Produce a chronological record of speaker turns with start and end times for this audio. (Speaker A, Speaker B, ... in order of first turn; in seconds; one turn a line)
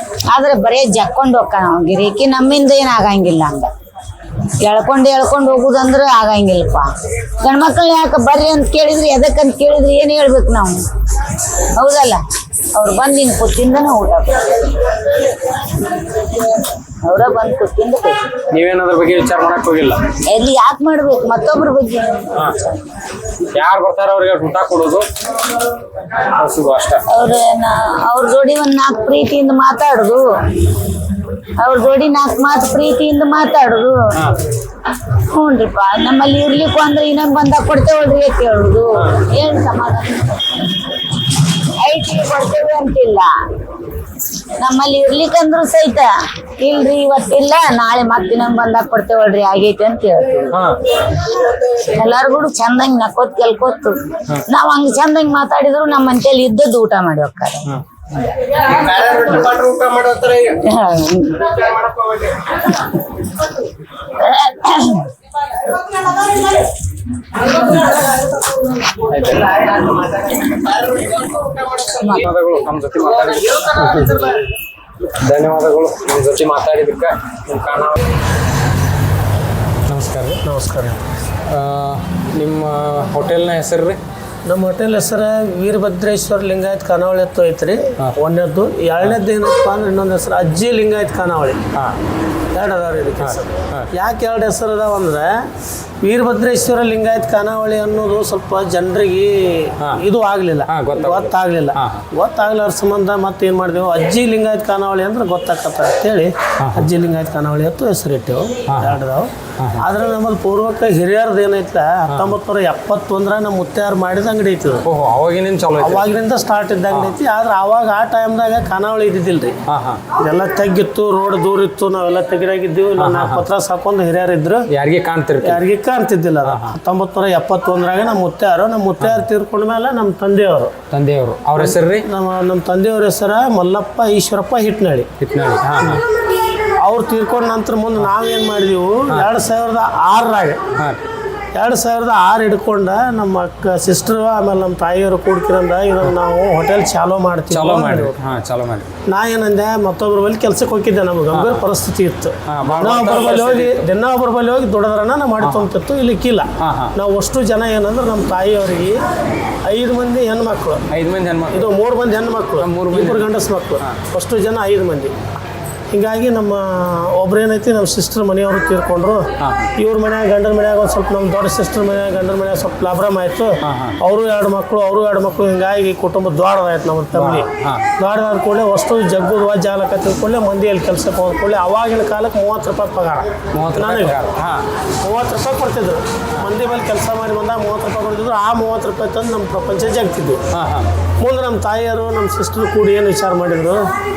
Speaker A: 0.2-3.7
Speaker A: 4.6-10.9
Speaker A: 11.6-15.1
Speaker A: 16.9-18.3
Speaker B: 18.5-20.0
Speaker A: 20.3-22.9
Speaker B: 23.5-25.1
Speaker B: 26.3-27.0
Speaker A: 27.1-30.4
Speaker A: 31.6-34.2
Speaker A: 35.0-40.7
Speaker A: 41.6-43.3
Speaker A: 44.6-50.6
Speaker B: 50.5-50.8
Speaker A: 51.5-57.7
Speaker A: 59.0-61.8
Speaker A: 64.1-65.1
Speaker B: 69.0-69.7
Speaker B: 72.0-74.4
Speaker B: 75.2-78.0
Speaker B: 79.9-80.4
Speaker C: 80.4-81.0
Speaker B: 81.5-84.0
Speaker C: 84.5-91.6
Speaker C: 92.5-95.5
Speaker B: 93.2-93.9
Speaker C: 96.0-114.9
Speaker B: 100.7-102.0
Speaker B: 106.6-106.9
Speaker B: 108.7-109.0
Speaker B: 109.6-109.8
Speaker B: 112.1-112.3
Speaker B: 114.8-116.1
Speaker C: 115.8-119.6
Speaker B: 116.9-117.2
Speaker B: 119.7-120.0
Speaker C: 120.1-124.7
Speaker B: 123.0-123.4
Speaker B: 124.7-125.6
Speaker C: 125.4-130.8
Speaker B: 126.4-126.8
Speaker B: 130.9-132.1
Speaker C: 131.6-135.1
Speaker B: 135.2-136.0
Speaker C: 136.8-140.7
Speaker C: 141.5-148.1
Speaker B: 147.5-148.9
Speaker C: 149.1-159.0
Speaker B: 151.3-151.6
Speaker B: 152.4-153.8
Speaker B: 155.4-155.7
Speaker B: 156.6-156.9
Speaker C: 159.6-160.8
Speaker B: 160.9-161.7
Speaker C: 161.5-165.2
Speaker B: 162.6-164.0
Speaker C: 165.9-184.2
Speaker B: 169.4-169.7
Speaker B: 173.6-174.0
Speaker B: 177.1-177.9
Speaker B: 183.5-184.6
Speaker C: 185.0-190.4
Speaker B: 190.5-190.9
Speaker C: 191.2-193.9